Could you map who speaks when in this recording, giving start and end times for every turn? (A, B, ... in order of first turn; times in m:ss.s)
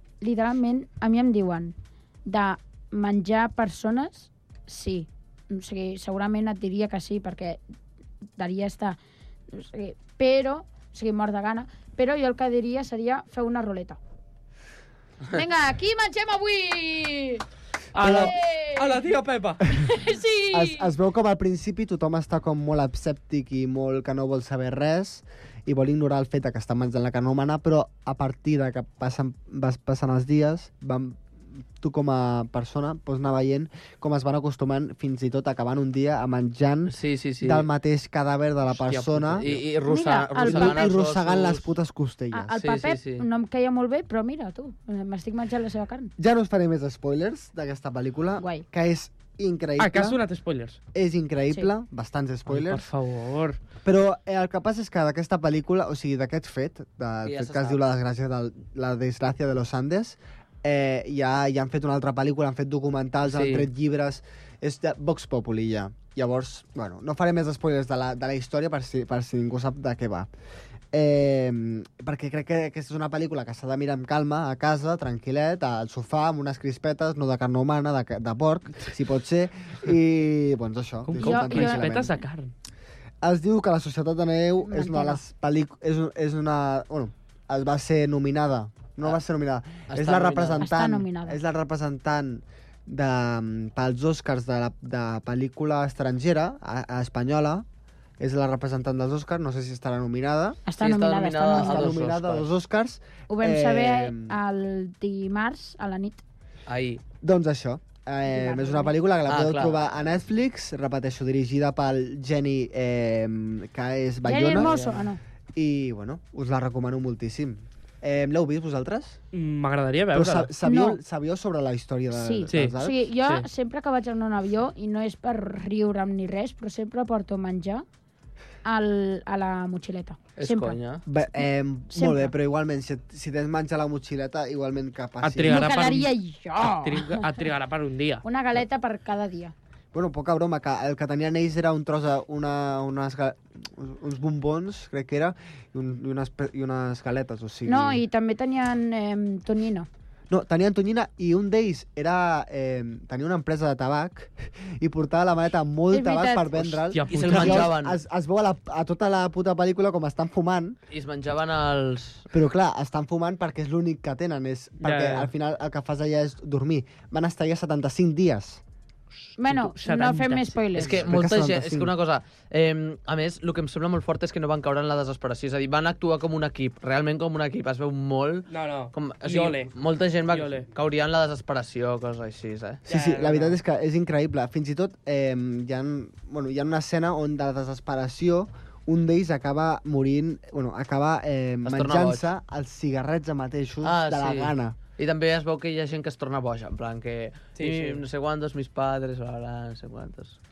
0:00.2-0:01.7 A
0:02.2-0:07.6 A
0:08.4-0:09.0 A
0:09.5-0:14.0 A
0:15.3-0:17.4 A
0:17.9-0:19.6 B
0:18.0-0:18.3 C
0:18.0-0:19.0 A
0:19.8-0:20.7 A
0:20.5-0:31.2 C
0:31.8-0:39.6 C
0:36.9-0:37.7 D
0:38.8-0:39.6 B
0:39.2-0:41.7 D
0:39.9-0:40.8 A
0:40.4-0:42.5 C
0:42.3-0:46.1 A
0:42.6-0:43.2 D
0:46.2-0:50.2 C
0:48.4-0:48.6 A
0:49.8-0:50.8 B
0:50.9-0:52.8 C
0:52.5-0:53.6 B
0:53.8-1:10.3 C
0:57.2-0:57.8 D
1:03.3-1:03.6 D
1:10.9-1:22.1 C
1:21.1-1:22.5 B
1:21.2-1:22.0 A
1:23.2-1:37.6 C
1:24.6-1:25.2 A
1:29.9-1:30.7 D
1:30.6-1:31.4 A
1:38.2-1:40.6 C
1:40.6-1:42.0 A
1:40.8-1:42.5 D
1:41.5-1:44.4 C
1:43.3-1:46.2 A
1:46.7-1:47.0 D
1:47.2-1:54.8 C
1:48.3-1:48.9 A
1:49.3-1:49.9 D
1:54.2-1:55.2 A
1:54.6-1:55.0 D
1:55.5-1:59.2 C
1:59.3-2:00.5 B
2:00.1-2:03.0 C
2:00.6-2:01.0 A
2:02.1-2:07.8 A
2:02.5-2:03.4 B
2:08.6-2:10.8 A
2:10.4-2:11.0 D
2:11.0-2:15.7 C
2:11.9-2:12.3 A
2:15.2-2:18.2 B
2:15.5-2:17.3 A
2:18.2-2:19.5 A
2:19.9-2:28.0 C
2:27.6-2:29.9 A
2:30.3-2:40.8 C
2:35.9-2:36.7 A
2:36.9-2:37.7 B
2:37.1-2:38.0 D
2:40.9-2:42.3 D
2:42.3-2:48.6 C
2:44.8-2:45.3 B
2:49.4-2:51.0 A
2:49.4-2:50.6 B
2:50.7-3:02.8 D
2:50.8-2:51.9 C
2:58.5-2:59.7 B
3:00.3-3:00.7 B
3:02.8-3:14.8 C
3:02.9-3:03.6 B
3:11.6-3:12.3 D
3:13.8-3:20.4 D
3:17.5-3:18.0 B